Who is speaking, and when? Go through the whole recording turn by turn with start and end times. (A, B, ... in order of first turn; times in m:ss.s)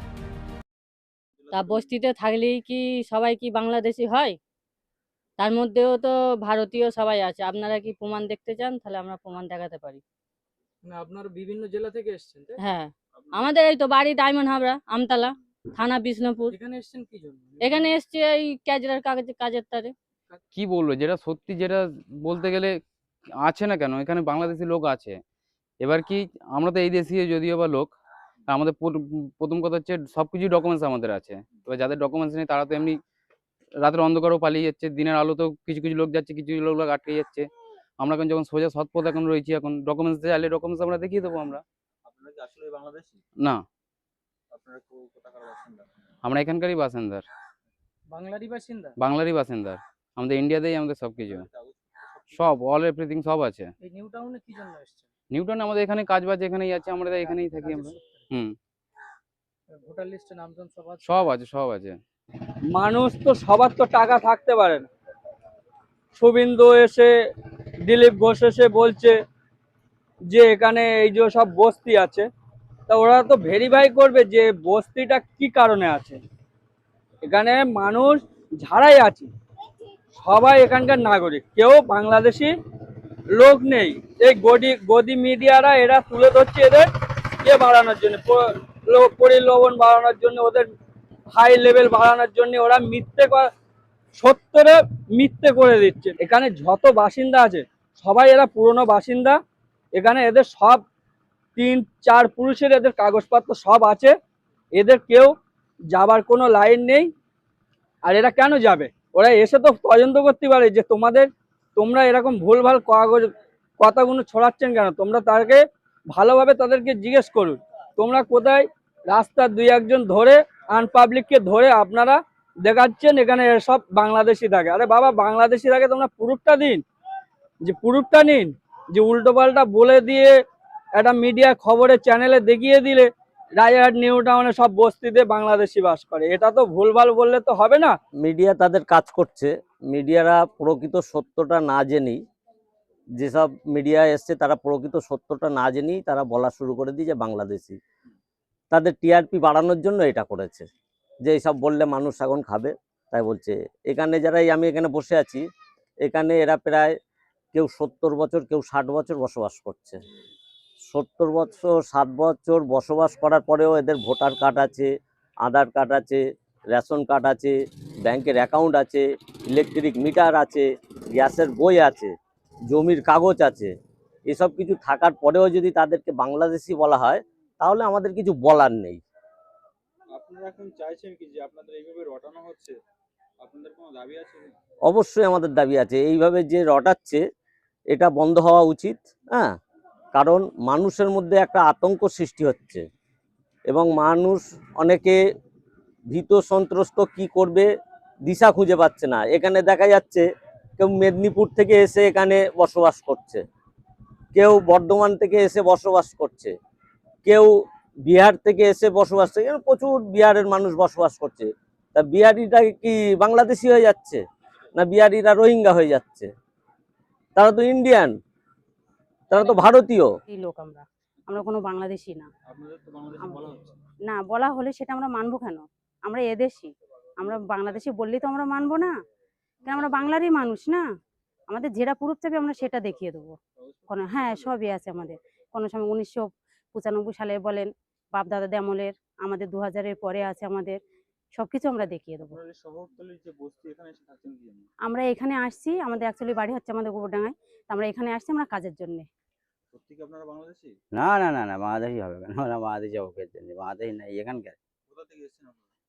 0:01.4-0:01.9 A
0:01.5-0:04.4 B
0:05.4-0:10.0 B
0:10.8-0:12.5 C
0:12.6-0:16.6 B
0:16.5-0:17.9 C
0:17.6-0:19.9 B
0:20.5-0:22.7 D
0:23.4-0:25.2 D
0:25.8-0:27.9 D
0:28.5-0:33.0 D
0:33.8-0:37.5 D
0:38.0-0:41.6 D
0:42.0-0:43.2 A
0:44.5-0:45.8 A
0:46.2-0:47.2 D
0:48.2-0:48.9 C
0:49.0-0:51.5 D
0:51.3-0:52.5 A
0:52.3-0:53.7 D
0:53.8-0:54.8 C
0:55.3-0:58.5 D
0:57.2-0:57.9 C
0:59.8-1:01.0 C
1:01.0-1:02.0 D
1:02.7-1:04.8 E
1:06.2-1:07.1 E
1:07.9-1:09.2 E
1:10.3-1:12.3 E
1:12.9-1:16.2 E
1:17.2-1:19.3 E
1:20.2-1:22.5 E
1:23.3-1:26.9 E
1:27.4-1:30.7 E
1:31.3-1:33.5 E
1:34.2-1:39.4 E
1:40.0-1:40.8 E
1:41.6-1:44.1 E
1:44.8-1:45.3 E
1:45.9-1:47.1 E
1:48.1-2:06.8 E
2:07.7-2:10.3 E
2:11.0-2:18.0 E
2:18.2-2:22.2 F
2:23.2-2:27.8 F
2:28.7-2:30.7 F
2:31.2-2:35.4 F
2:36.0-2:36.9 F
2:37.5-2:40.0 F
2:40.9-2:44.9 F
2:45.4-2:46.2 F
2:46.7-2:47.5 F
2:48.0-2:52.1 F
2:52.7-2:53.7 F
2:54.3-2:59.0 F
3:00.1-3:02.7 A
3:03.4-3:04.5 A
3:04.9-3:07.2 F
3:07.9-3:09.5 F
3:10.1-3:12.8 F
3:13.7-3:15.2 F
3:16.1-3:17.7 F
3:18.3-3:20.2 F
3:20.8-3:23.4 F
3:24.3-3:26.5 F
3:27.2-3:27.5 F
3:28.1-3:34.2 F
3:34.8-3:36.3 F
3:37.4-3:38.1 F
3:39.3-3:40.1 F
3:40.3-3:42.3 G
3:42.5-3:43.7 A
3:44.1-3:48.9 G
3:49.6-3:50.8 G
3:49.7-3:49.9 A
3:51.5-3:53.4 G
3:53.6-3:54.6 A
3:53.9-4:00.8 G
4:01.4-4:02.4 G
4:02.2-4:04.7 A
4:04.9-4:09.1 G
4:09.7-4:10.7 A
4:10.9-4:14.6 H
4:14.9-4:15.7 A